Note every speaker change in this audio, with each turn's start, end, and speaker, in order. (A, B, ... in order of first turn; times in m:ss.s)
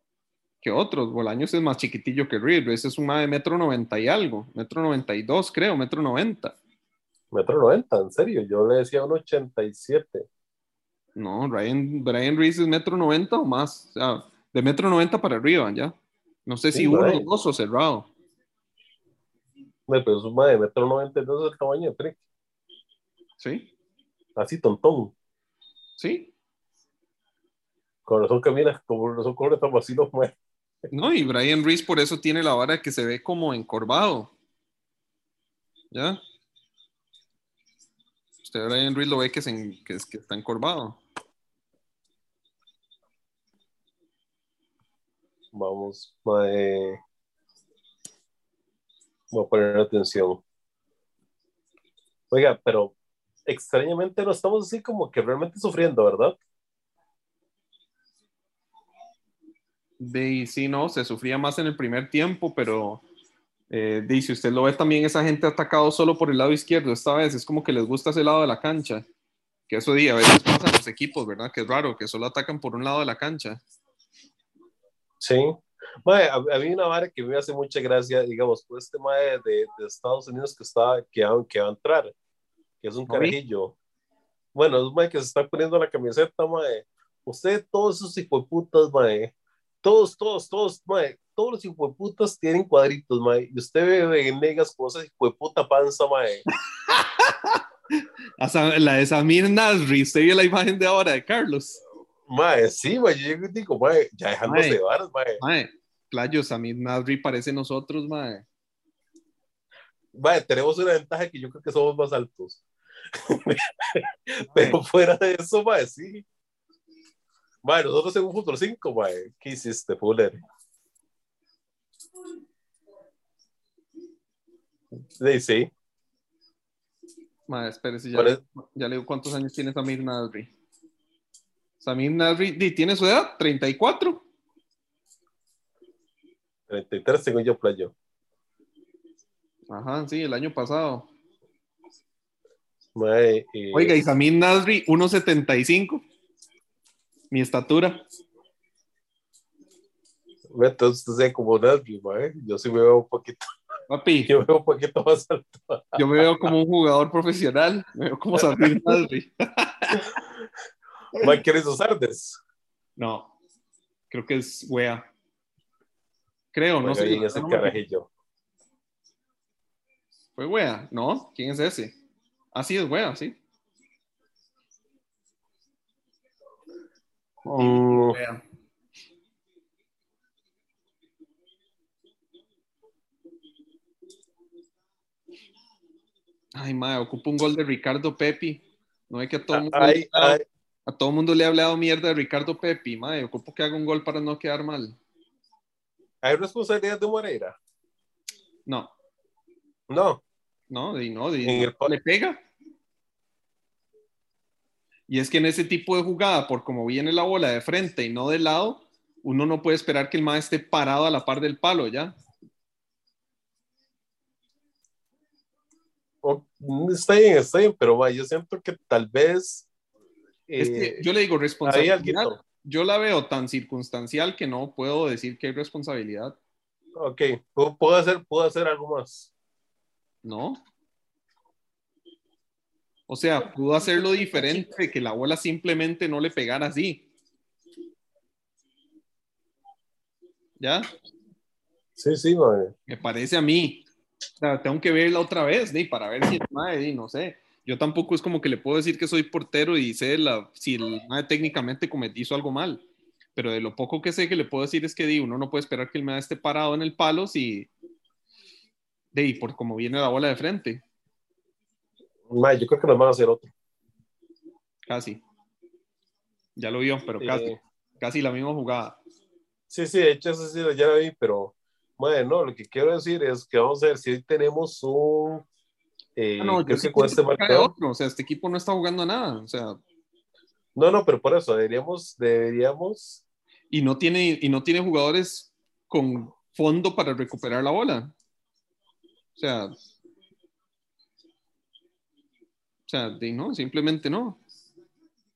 0:00.6-0:06.6 A
0:07.3-0:10.3 B
0:11.2-0:15.9 A
0:16.4-0:18.1 A
0:16.7-0:17.2 B
0:19.9-0:22.2 B
0:23.4-0:23.7 A
0:24.4-0:25.1 B
0:26.0-0:26.3 A
0:28.0-0:30.3 B
0:30.9-0:34.3 A
0:35.9-0:36.2 A
0:38.4-0:41.0 A
0:45.5-0:47.0 B
0:49.3-0:50.4 B
0:52.3-0:52.9 B
0:53.4-0:56.4 B
1:00.0-1:03.0 A
1:03.7-1:09.0 A
1:09.7-1:13.6 A
1:15.2-1:22.1 B
1:22.8-1:23.7 B
1:23.1-1:23.4 A
1:24.5-1:36.4 B
1:36.7-1:41.8 A
1:42.3-1:45.4 B
1:44.4-1:44.8 A
1:45.4-1:48.4 A
1:50.1-1:52.6 B
1:53.1-1:56.2 B
1:54.5-1:54.8 A
1:57.6-2:00.4 B
2:05.2-2:05.7 B
2:07.5-2:10.5 A
2:11.8-2:14.2 A
2:16.7-2:17.9 B
2:19.7-2:21.1 A
2:22.9-2:23.9 B
2:23.7-2:26.0 A
2:27.3-2:28.0 A
2:30.5-2:33.4 B
2:33.9-2:34.3 A
2:34.3-2:36.5 B
2:35.9-2:40.1 A
2:38.4-2:38.8 B
2:41.2-2:42.4 B
2:43.0-2:43.3 A
2:44.1-2:45.1 A
2:46.5-2:47.7 A
2:46.8-2:48.1 B
2:50.4-2:52.0 A
2:52.5-2:53.4 A
2:57.4-2:58.4 A
2:57.5-2:58.2 B
3:06.5-3:15.0 A
3:09.5-3:10.4 B
3:16.2-3:17.6 B
3:18.6-3:18.9 A
3:19.9-3:20.2 B
3:20.7-3:22.4 A
3:21.4-3:22.0 B
3:25.1-3:32.1 A
3:36.2-3:39.7 B
3:40.5-3:41.0 B
3:40.6-3:46.4 A
3:41.6-3:42.4 B
3:47.0-3:49.3 B
3:50.2-3:50.6 A
3:53.1-3:57.1 A
3:54.2-3:54.5 B
4:00.6-4:00.9 A
4:02.0-4:02.7 B
4:02.9-4:03.8 A
4:04.4-4:17.7 A
4:19.1-4:20.8 A
4:22.3-4:23.5 B
4:24.8-4:25.2 A
4:26.6-4:29.0 A
4:27.2-4:27.6 B
4:29.7-4:35.4 B
4:36.2-4:37.7 B
4:36.4-4:39.8 A
4:40.7-4:43.2 B
4:43.7-4:48.1 A
4:49.4-4:49.7 A
4:52.9-4:54.4 A